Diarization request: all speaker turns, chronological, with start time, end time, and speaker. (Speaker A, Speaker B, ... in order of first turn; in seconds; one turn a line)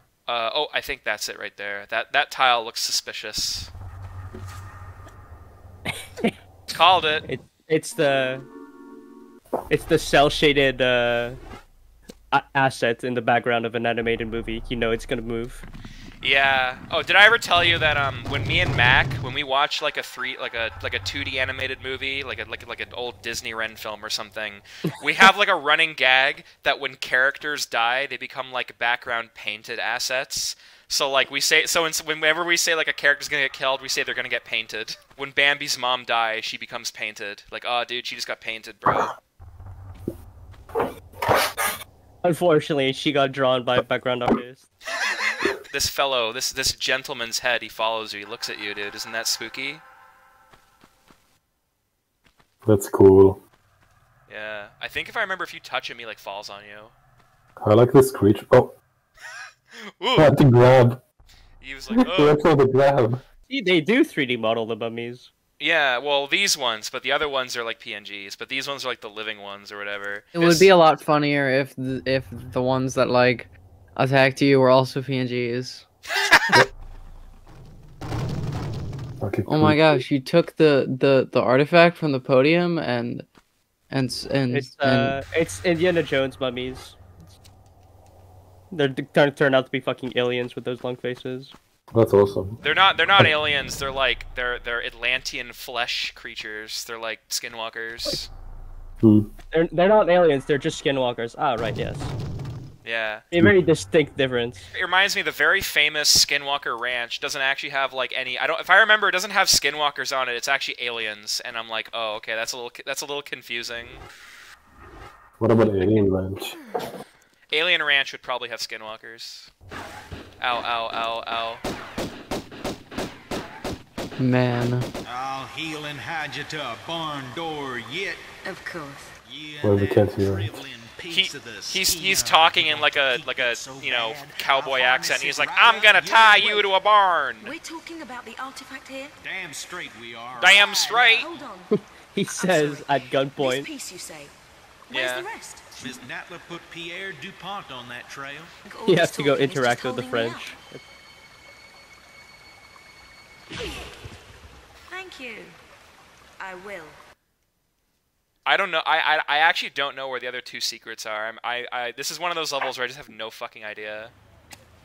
Speaker A: 0.3-3.7
Speaker A: 6.7-7.2
Speaker B: 7.2-8.5
Speaker B: 9.7-11.4
Speaker B: 12.3-15.6
Speaker A: 16.2-39.1
Speaker B: 42.2-44.7
Speaker A: 45.5-49.8
Speaker C: 52.6-53.4
Speaker A: 54.3-56.9
Speaker C: 57.6-58.8
Speaker A: 60.0-60.3
Speaker C: 60.2-61.0
Speaker A: 61.6-62.4
Speaker C: 62.1-63.2
Speaker B: 63.5-65.3
Speaker A: 65.6-70.7
Speaker D: 70.3-75.8
Speaker C: 79.2-80.0
Speaker D: 79.5-83.3
Speaker D: 83.9-85.2
Speaker B: 84.5-87.0
Speaker B: 88.7-91.5
Speaker C: 91.9-92.6
Speaker A: 92.6-98.3
Speaker C: 99.0-99.3
Speaker B: 99.5-102.1
Speaker A: 102.8-103.2
Speaker B: 103.3-104.7
Speaker A: 104.7-114.0
Speaker C: 115.4-116.6
Speaker A: 117.5-119.5
Speaker A: 120.4-121.7
Speaker D: 124.2-124.9
Speaker E: 125.0-128.2
Speaker F: 128.4-129.1
Speaker E: 129.2-136.7
Speaker C: 129.6-130.5
Speaker A: 131.1-137.6
Speaker F: 137.4-139.1
Speaker E: 139.2-141.5
Speaker A: 140.4-141.3
Speaker F: 141.2-141.7
Speaker B: 141.7-143.7
Speaker F: 142.3-144.3
Speaker F: 144.9-145.8
Speaker A: 144.9-145.3
Speaker E: 145.8-148.5
Speaker F: 148.7-150.5
Speaker B: 148.8-150.8
Speaker F: 154.9-155.6
Speaker F: 156.4-157.0
Speaker A: 158.4-164.1